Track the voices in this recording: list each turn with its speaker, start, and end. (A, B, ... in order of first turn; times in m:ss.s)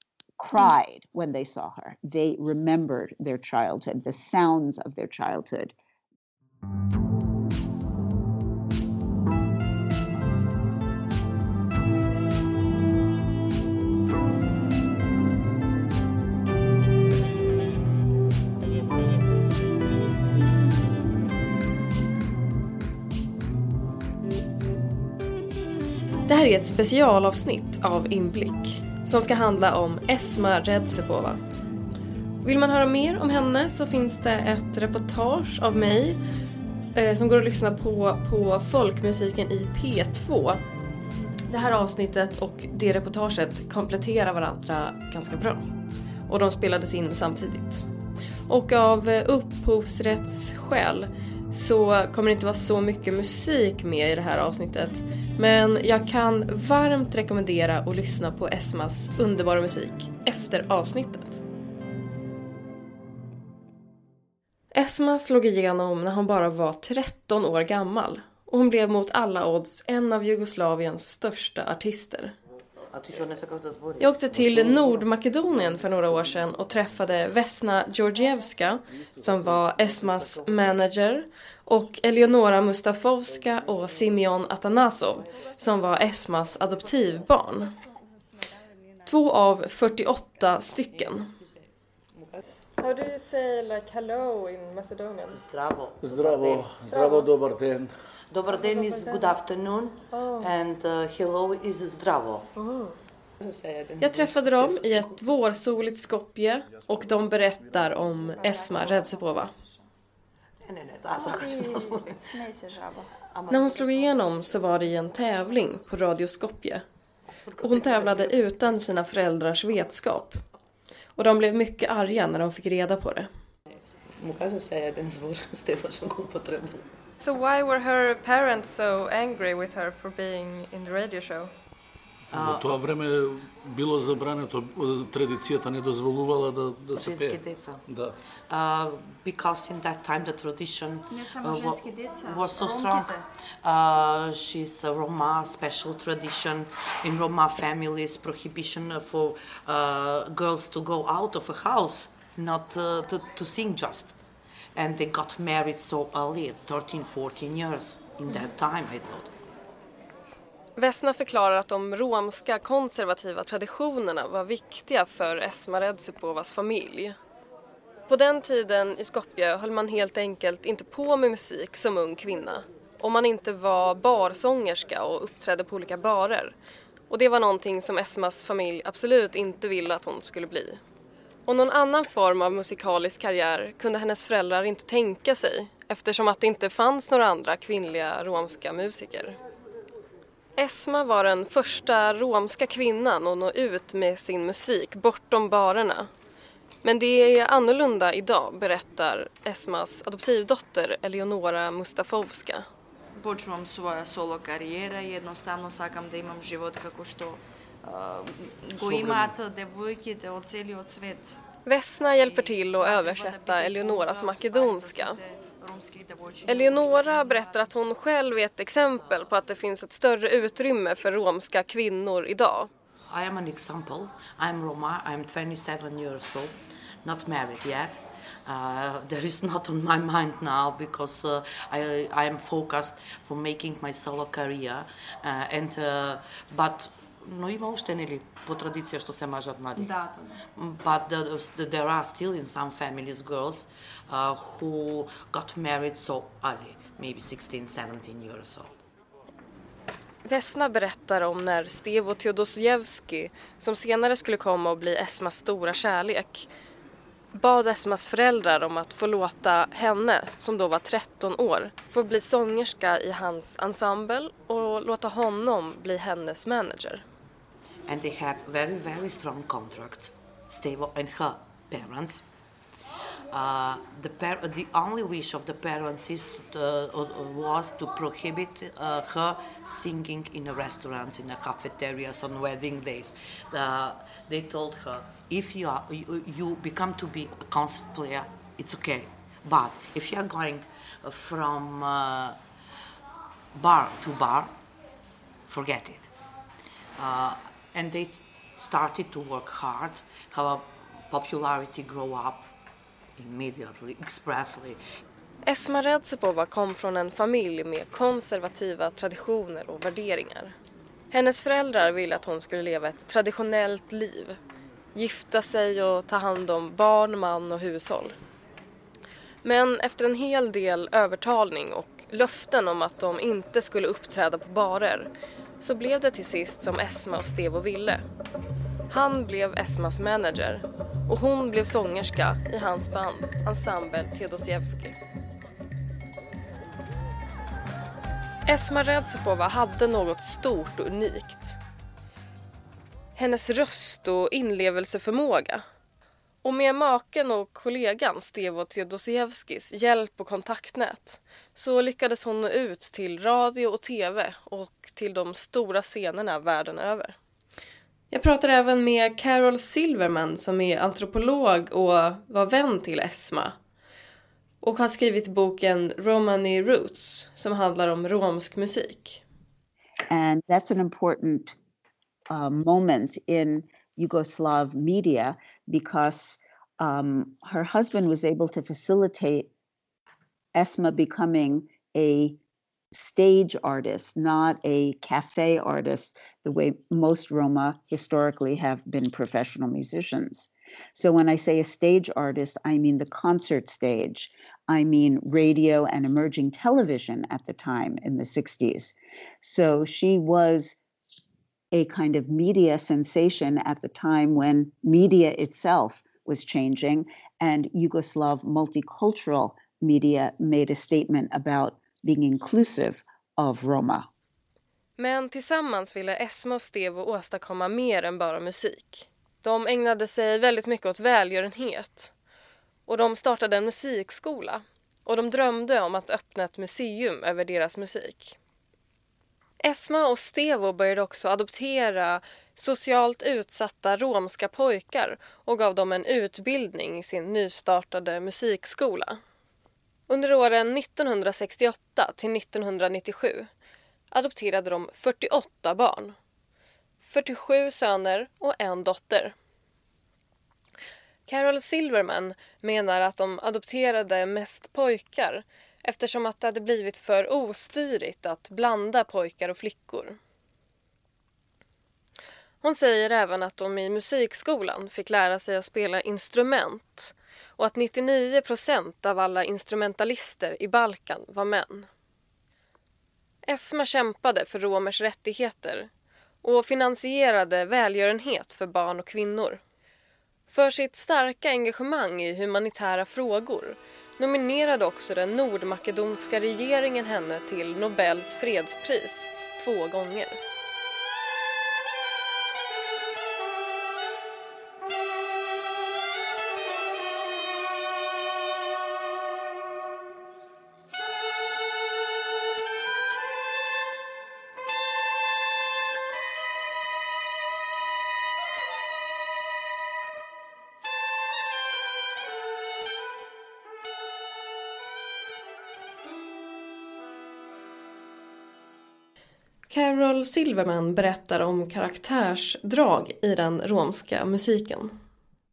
0:00.4-0:05.7 A
0:26.3-0:31.4 B
0:32.4-0:36.2 B
0:36.9-0:40.6 B
0:41.5-0:45.6 B
0:46.3-0:47.8 B
0:48.5-1:01.4 B
1:04.7-1:12.3 B
1:12.9-1:16.6 C
1:14.0-1:27.8 B
1:19.3-1:19.7 D
1:19.8-1:20.8 C
1:25.2-1:25.9 C
1:27.8-1:29.1 E
1:29.0-1:31.3 B
1:30.9-1:32.4 C
1:32.8-1:35.4 B
1:35.3-1:36.8 C
1:36.0-1:37.9 D
1:36.8-1:37.3 B
1:38.3-1:42.5 C
1:38.5-1:39.3 B
1:40.1-1:40.5 B
1:42.6-1:42.9 B
1:43.4-1:45.3 C
1:44.0-1:49.5 B
1:48.4-1:49.8 E
1:50.6-1:52.4 C
1:51.0-1:53.1 E
1:53.1-1:55.8 C
1:53.5-1:56.8 B
1:57.5-1:58.4 C
1:57.6-2:00.4 B
2:01.2-2:03.3 B
2:03.7-2:06.9 C
2:07.2-2:11.5 B
2:12.3-2:18.2 D
2:12.3-2:12.7 C
2:16.9-2:17.8 C
2:18.5-2:34.2 C
2:21.1-2:23.2 E
2:34.7-2:39.3 C
2:40.8-2:47.1 B
2:48.1-2:56.5 B
2:57.1-3:00.8 B
3:01.4-3:09.4 B
3:10.6-3:16.1 B
3:16.8-3:22.6 B
3:23.2-3:31.4 E
3:28.8-3:29.3 C
3:31.6-3:35.2 B
3:32.2-3:37.7 E
3:36.4-3:42.7 B
3:43.1-4:08.8 C
3:59.7-4:00.4 E
4:10.2-4:16.5 B
4:17.3-4:27.0 B
4:27.9-4:32.2 C
4:33.3-4:52.4 C
4:53.5-4:54.5 C
4:55.5-4:56.1 C
4:57.0-5:02.5 C
5:03.2-5:04.8 C
5:05.4-5:10.5 B
5:11.1-5:14.4 B
5:14.9-5:18.1 B
5:19.4-5:25.1 B
5:25.6-5:28.0 B
5:28.9-5:35.0 B
5:38.5-5:41.6 B
5:43.2-5:45.6 B
5:46.4-5:57.2 B
5:58.1-6:03.5 B
6:04.6-6:09.2 B
6:10.1-6:11.6 A
6:12.3-6:19.5 A
6:20.5-6:22.4 A
6:22.9-6:40.8 A
6:41.7-6:54.1 A
6:55.0-7:02.1 B
7:02.9-7:08.4 B
7:09.6-7:19.2 B
7:20.1-7:23.5 B
7:24.1-7:26.2 B
7:27.0-7:29.3 B
7:31.3-7:40.2 B
7:42.6-7:51.9 B
7:53.4-7:55.9 B
7:56.4-7:59.6 B
8:00.5-8:10.4 B
8:39.7-8:44.9 B